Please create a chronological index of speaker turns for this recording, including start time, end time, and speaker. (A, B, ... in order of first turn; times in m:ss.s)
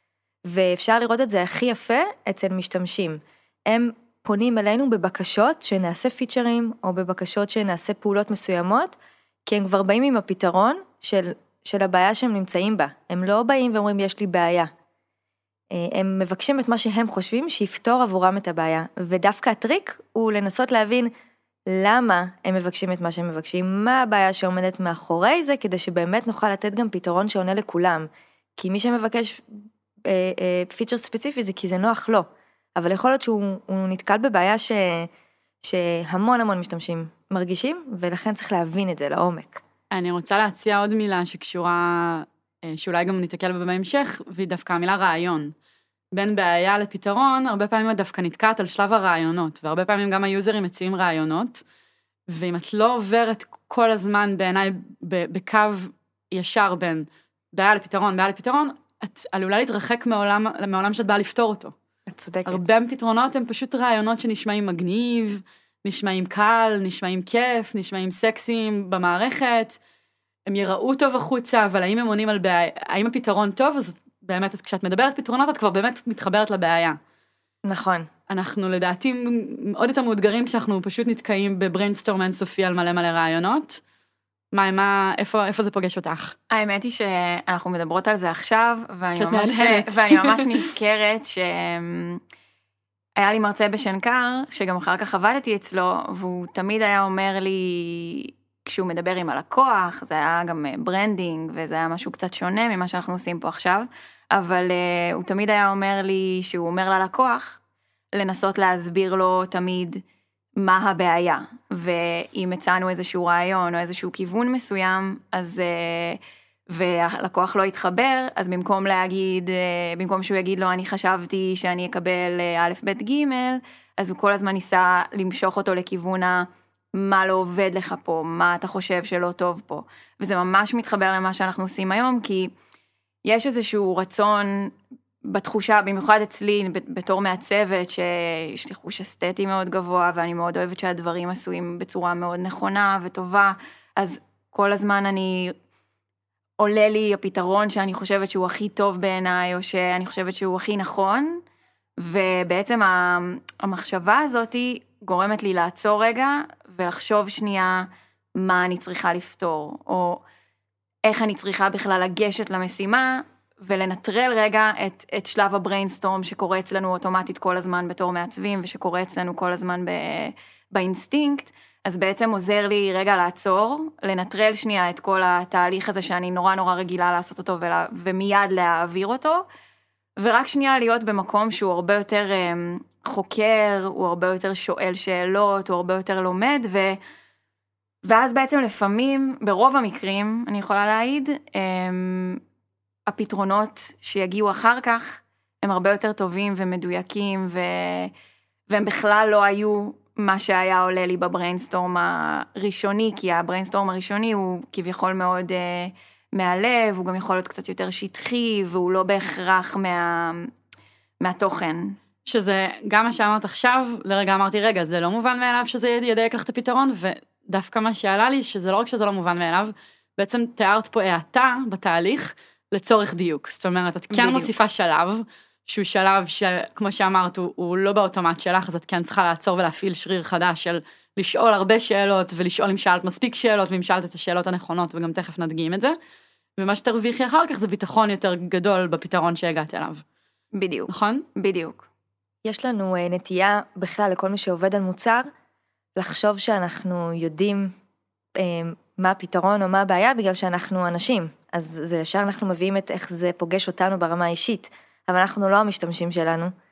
0:00.4-0:14.7 A
0:15.7-0:21.1 A
0:21.7-0:29.4 A
0:30.0-0:35.1 A
0:35.6-0:39.6 A
0:39.9-0:45.5 B
0:46.1-0:51.6 B
0:52.3-1:01.7 B
1:02.1-1:02.6 A
1:02.4-1:09.8 B
1:10.5-1:17.0 B
1:17.6-1:18.1 A
1:18.3-1:23.8 B
1:24.5-1:26.4 B
1:26.5-1:32.2 C
1:29.2-1:30.6 B
1:33.2-1:47.6 C
1:48.2-1:50.0 C
1:50.6-2:12.5 C
2:13.2-2:14.7 C
2:15.3-2:25.5 C
2:26.6-2:31.4 C
2:32.0-2:37.9 C
2:38.4-2:40.2 C
2:41.0-2:59.4 C
3:00.2-3:07.0 C
3:08.0-3:12.4 C
3:13.1-3:18.1 C
3:18.7-3:30.5 C
3:31.2-3:32.0 C
3:32.2-3:55.9 B
3:44.1-3:44.5 C
3:56.6-4:00.0 B
4:00.5-4:01.9 C
4:00.9-4:01.2 B
4:02.4-4:05.3 A
4:06.0-4:07.7 A
4:08.4-4:16.5 A